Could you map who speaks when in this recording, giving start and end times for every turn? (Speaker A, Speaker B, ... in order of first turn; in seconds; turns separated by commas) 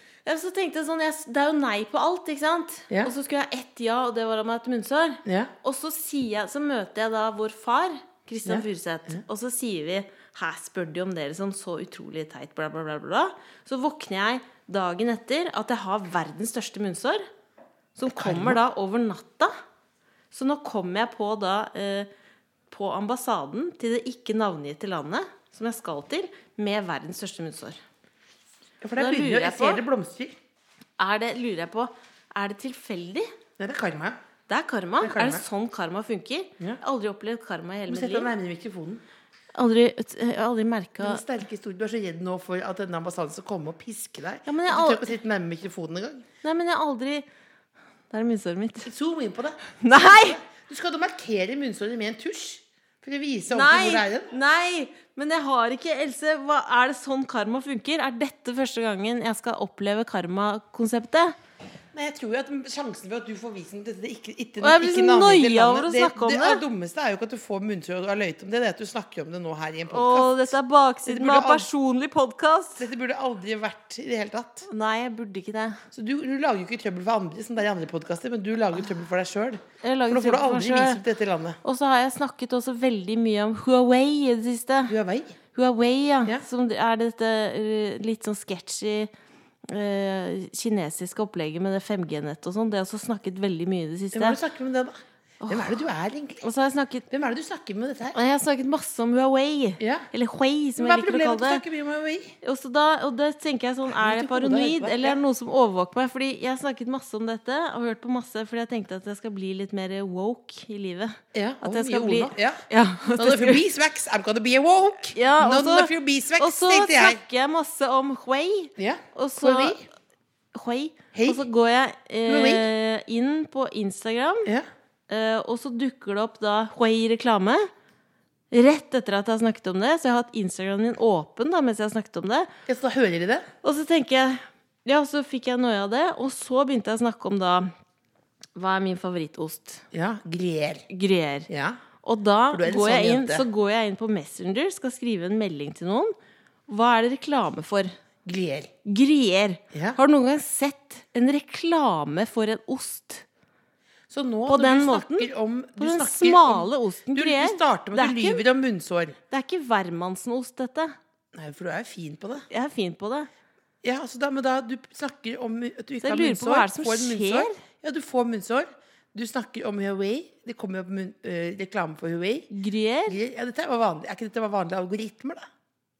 Speaker A: 0.2-17.2, Speaker B: 5.2-5.5, Speaker B: 8.5-9.2, Speaker A: 18.0-19.5, Speaker B: 18.2-18.6, Speaker A: 20.3-22.1, Speaker A: 22.7-27.8, Speaker B: 28.8-30.4, Speaker A: 29.0-29.8, Speaker A: 31.0-33.3, Speaker B: 33.6-34.2, Speaker A: 34.5-38.3, Speaker B: 35.0-35.4, Speaker B: 37.9-39.0, Speaker A: 39.5-41.2, Speaker B: 41.0-46.3, Speaker A: 44.5-45.1, Speaker A: 46.4-47.3, Speaker A: 48.1-48.9, Speaker B: 48.8-54.3, Speaker A: 49.8-50.4, Speaker A: 53.5-61.4, Speaker B: 61.9-70.5, Speaker A: 64.6-66.6, Speaker A: 69.9-72.9, Speaker B: 71.0-71.7, Speaker B: 72.8-74.7, Speaker A: 74.7-75.8, Speaker B: 75.9-81.6, Speaker A: 79.8-81.0, Speaker A: 81.6-85.0, Speaker B: 84.9-85.4, Speaker A: 85.5-89.1, Speaker A: 89.7-94.4, Speaker B: 94.1-96.5, Speaker A: 95.4-95.8, Speaker A: 96.4-97.1, Speaker B: 97.1-98.2, Speaker A: 98.1-101.6, Speaker B: 99.8-100.1, Speaker B: 100.8-102.3, Speaker A: 102.4-113.6, Speaker B: 103.9-105.2, Speaker B: 111.3-117.2, Speaker A: 115.1-119.8, Speaker B: 118.8-119.8, Speaker A: 120.5-124.5, Speaker B: 121.1-121.5, Speaker B: 122.3-122.7, Speaker A: 125.1-127.7, Speaker A: 128.5-132.5, Speaker B: 132.7-133.5, Speaker A: 133.6-137.7, Speaker A: 138.6-139.8, Speaker B: 139.9-140.9, Speaker A: 140.9-141.5, Speaker B: 141.5-141.8, Speaker A: 142.0-146.2, Speaker B: 142.5-143.5, Speaker A: 146.7-147.9, Speaker B: 148.2-148.7, Speaker A: 148.8-153.2, Speaker B: 149.7-150.0, Speaker B: 154.1-159.2, Speaker A: 154.5-158.4, Speaker A: 159.3-161.0, Speaker B: 161.3-162.5, Speaker A: 162.5-163.3, Speaker B: 163.8-172.5, Speaker A: 166.0-167.6, Speaker A: 172.5-173.2, Speaker B: 173.1-175.5